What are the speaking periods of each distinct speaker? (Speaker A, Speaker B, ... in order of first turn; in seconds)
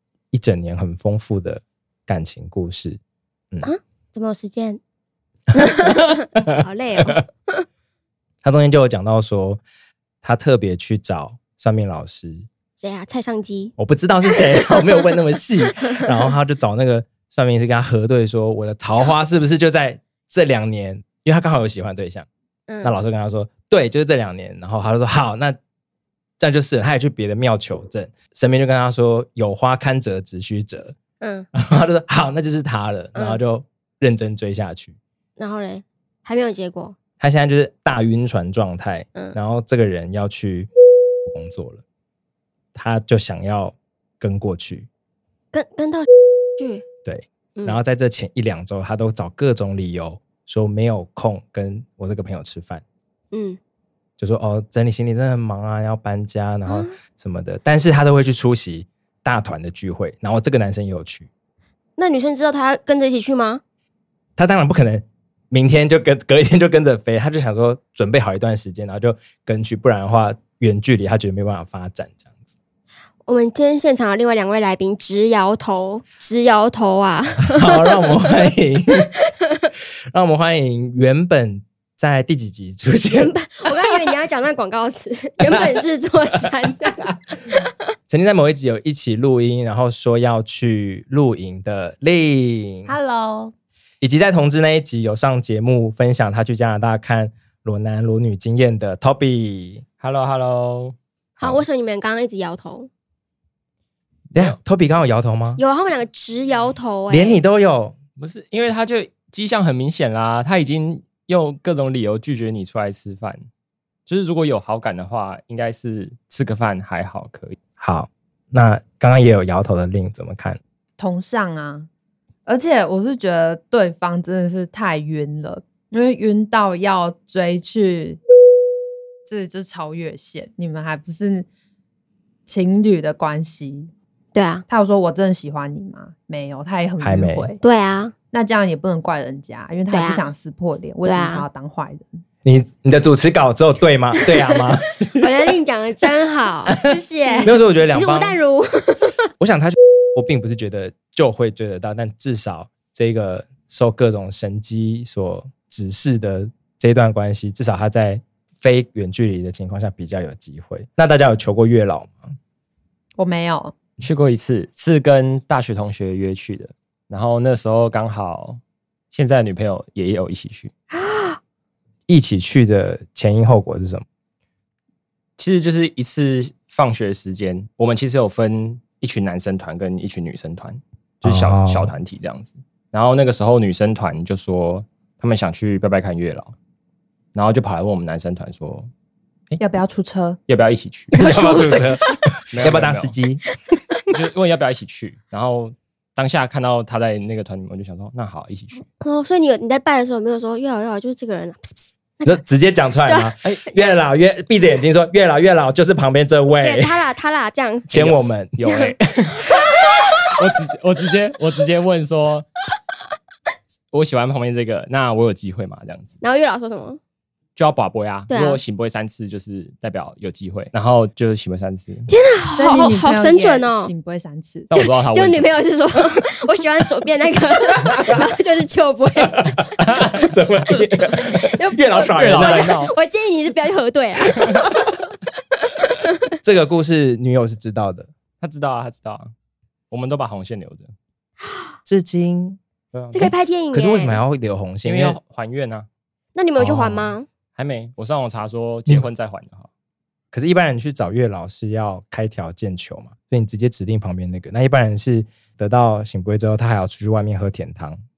Speaker A: 0.3-3.0, 8.4-9.6, 10.2-12.5, 13.8-22.3, 22.8-25.6, 26.4-31.0, 31.5-35.0, 37.2-40.7, 41.2-41.8, 42.8-44.9, 47.0-52.8, 54.2-61.3, 64.4-72.5, 77.5-79.1, 80.1-84.0, 85.5-85.8, 88.1-93.0, 94.0-99.8, 101.4-101.6, 104.3-105.6, 107.1-108.0, 117.8-120.6, 137.0-137.5, 142.4-145.6, 147.4-148.4, 149.4-162.3, 172.1-174.1, 181.2-181.9, 191.1-193.4, 202.2-207.1, 207.9-208.6, 227.8-228.2, 229.2-232.7, 236.4-238.1, 241.9-242.6, 243.2-245.2, 246.6-247.2, 250.3-258.0
Speaker B: 3.6-4.8, 5.5-7.6, 12.8-13.7, 14.3-14.8, 22.7-22.9, 31.2-31.5, 35.4-37.0, 45.5-46.8, 53.3-53.6, 56.7-57.0, 62.0-63.6, 73.2-78.3, 83.1-87.7, 101.4-102.9, 105.6-107.4, 134.3-134.7, 137.6-138.1, 139.9-140.2, 141.0-141.4, 145.2-146.8, 147.3-149.2, 170.9-171.4, 191.2-192.1, 199.0-202.4, 203.1-203.9, 206.6-208.9, 209.5-209.9, 216.2-217.0, 218.3-218.6, 222.1-223.9, 224.8-229.7, 231.5-234.8, 235.8-236.2, 243.1-244.2, 246.4-247.3
Speaker C: 92.9-93.5, 121.0-121.9, 122.5-128.2, 129.2-131.5, 132.5-133.9, 134.7-137.6, 138.3-142.2, 146.8-147.6, 163.2-163.7, 189.6-190.4, 222.6-224.7
Speaker D: 100.0-101.0, 108.2-113.4, 114.1-117.6, 164.0-168.6, 169.1-170.7, 175.4-186.5, 187.3-188.9, 190.5-191.2, 192.5-193.2, 194.1-198.9, 207.9-209.5, 210.3-212.5, 213.9-216.2, 217.6-222.1, 224.7-225.5, 232.1-232.9, 238.4-239.3, 239.9-240.9, 242.9-243.3, 244.8-245.9, 247.6-249.7